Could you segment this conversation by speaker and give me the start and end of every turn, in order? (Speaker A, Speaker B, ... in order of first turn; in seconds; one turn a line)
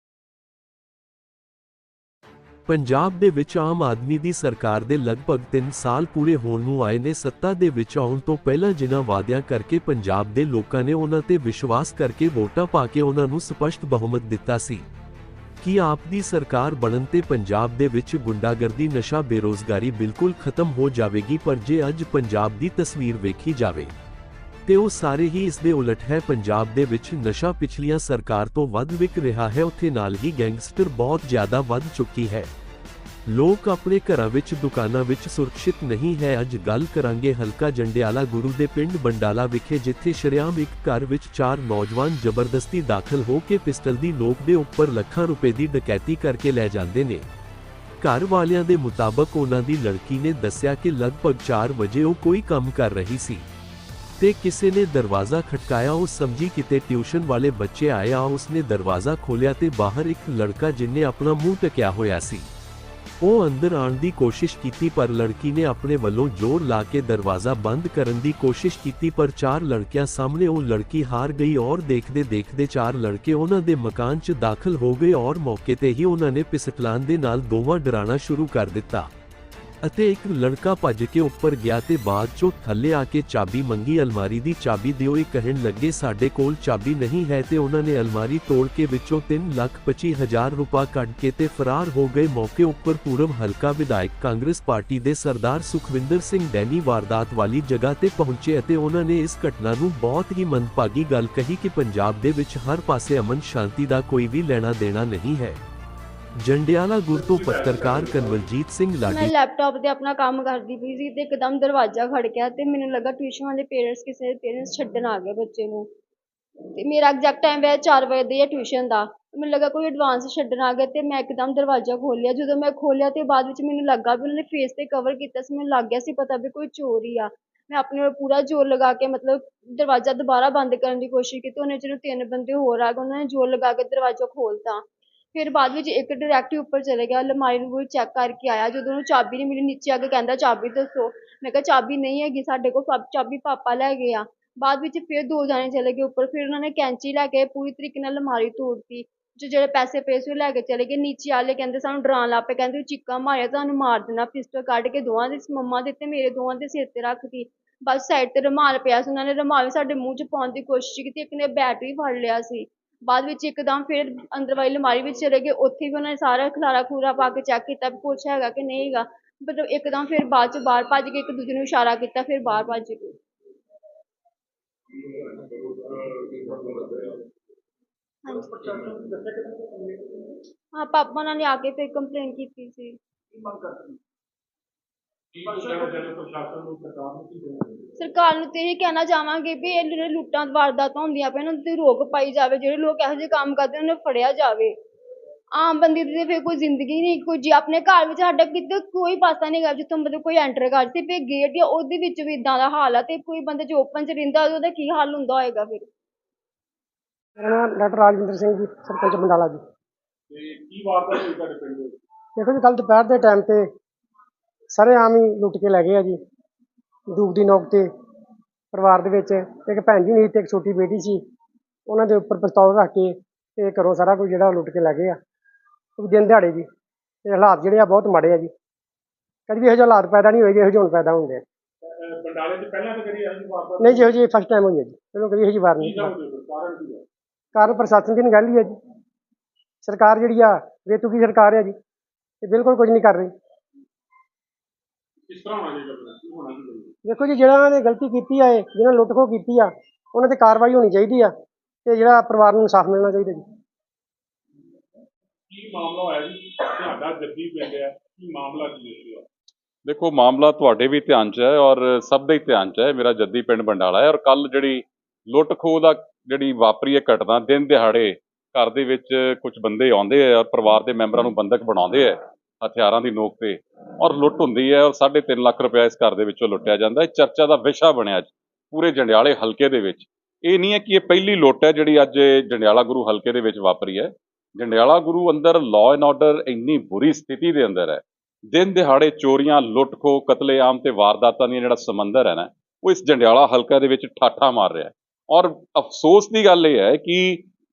Speaker A: 2.7-14.8
Speaker A: 15.6-23.9
Speaker A: 24.6-32.5
Speaker A: 33.2-47.3
Speaker A: 48.0-53.5
Speaker A: 54.2-62.5
Speaker A: 63.2-79.1
Speaker A: 79.8-105.6
Speaker A: 106.4-109.3
Speaker B: 107.1-108.5
Speaker C: 109.1-115.9
Speaker C: 116.7-134.8
Speaker C: 135.3-173.2
Speaker B: 175.5-177.2
Speaker C: 178.2-178.5
Speaker B: 178.3-180.3
Speaker C: 180.7-183.0
Speaker B: 185.3-187.9
Speaker C: 188.0-194.8
Speaker C: 195.5-205.9
Speaker D: 207.4-209.6
Speaker B: 210.3-212.0
Speaker D: 212.4-213.7
Speaker D: 214.7-216.2
Speaker D: 217.1-217.9
Speaker D: 218.7-221.2
Speaker D: 221.9-225.2
Speaker D: 226.0-226.7
Speaker D: 227.2-228.5
Speaker D: 229.5-231.4
Speaker B: 231.9-234.1
Speaker D: 233.8-236.1
Speaker B: 235.8-237.0
Speaker D: 237.5-238.8
Speaker D: 239.8-241.8
Speaker D: 242.4-243.3
Speaker B: 245.3-246.9
Speaker D: 247.0-251.3
Speaker D: 251.8-253.4
Speaker B: 255.5-259.2
Speaker E: 259.9-297.4